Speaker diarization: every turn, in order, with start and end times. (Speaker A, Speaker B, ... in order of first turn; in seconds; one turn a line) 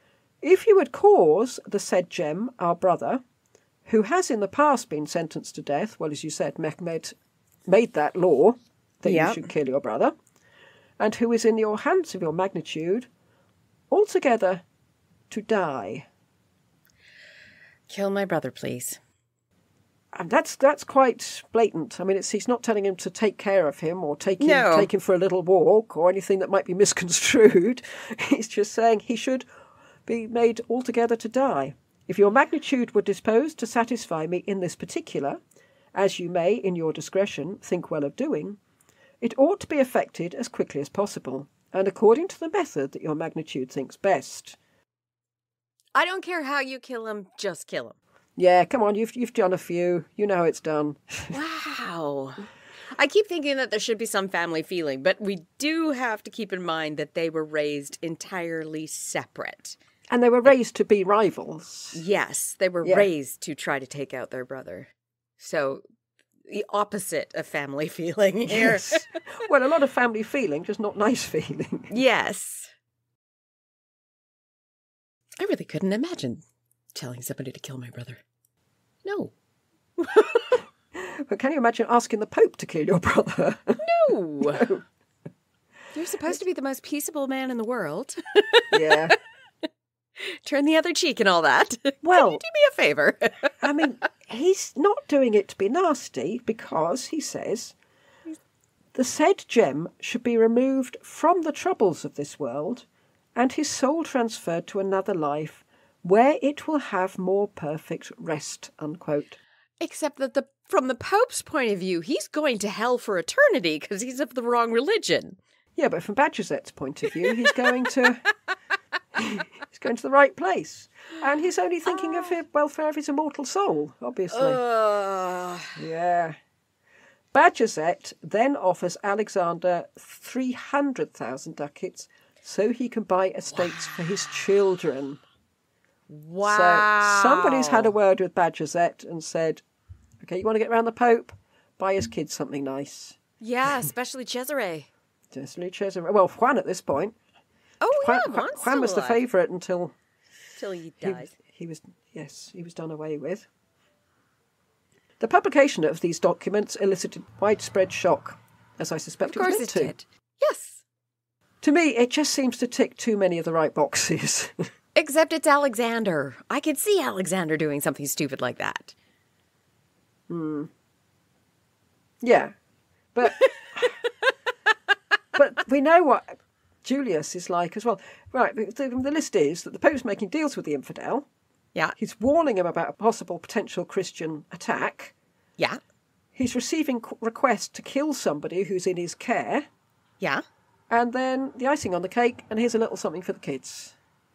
Speaker A: 0.4-3.2
Speaker A: 3.9-7.1
Speaker A: 7.7-10.1
Speaker B: 9.0-9.5
Speaker A: 11.0-13.1
Speaker A: 13.9-14.6
Speaker A: 15.3-16.1
Speaker B: 17.9-19.0
Speaker A: 20.1-29.4
Speaker B: 24.4-24.9
Speaker A: 30.1-35.4
Speaker A: 35.9-38.6
Speaker A: 39.2-44.6
Speaker B: 45.9-48.0
Speaker A: 48.4-51.4
Speaker B: 51.3-59.8
Speaker A: 60.1-62.0
Speaker B: 61.9-65.8
Speaker A: 62.8-63.1
Speaker B: 66.5-69.2
Speaker A: 68.5-71.9
Speaker B: 71.9-72.7
Speaker B: 75.4-76.4
Speaker B: 76.9-78.2
Speaker B: 79.0-79.3
Speaker B: 80.0-80.6
Speaker A: 80.9-83.8
Speaker B: 83.8-84.7
Speaker A: 84.4-84.8
Speaker B: 85.9-89.1
Speaker A: 88.7-89.2
Speaker B: 90.2-93.7
Speaker A: 92.0-92.4
Speaker A: 93.6-97.7
Speaker A: 98.9-109.4
Speaker B: 109.8-115.4
Speaker A: 115.8-118.2
Speaker B: 117.2-117.9
Speaker A: 119.2-124.6
Speaker B: 124.3-125.8
Speaker A: 125.8-126.4
Speaker A: 127.3-135.2
Speaker B: 136.1-137.9
Speaker A: 136.4-139.6
Speaker A: 140.2-143.2
Speaker B: 143.4-144.9
Speaker A: 145.3-147.2
Speaker B: 147.8-149.2
Speaker A: 148.0-149.9
Speaker B: 150.6-151.3
Speaker A: 151.0-153.5
Speaker A: 155.2-159.9
Speaker B: 159.2-160.8
Speaker A: 161.6-164.5
Speaker B: 164.9-168.9
Speaker A: 170.3-170.7
Speaker A: 172.2-172.5
Speaker A: 173.1-174.0
Speaker B: 173.2-174.2
Speaker A: 175.3-181.3
Speaker A: 182.0-185.1
Speaker A: 186.3-189.7
Speaker A: 190.9-193.9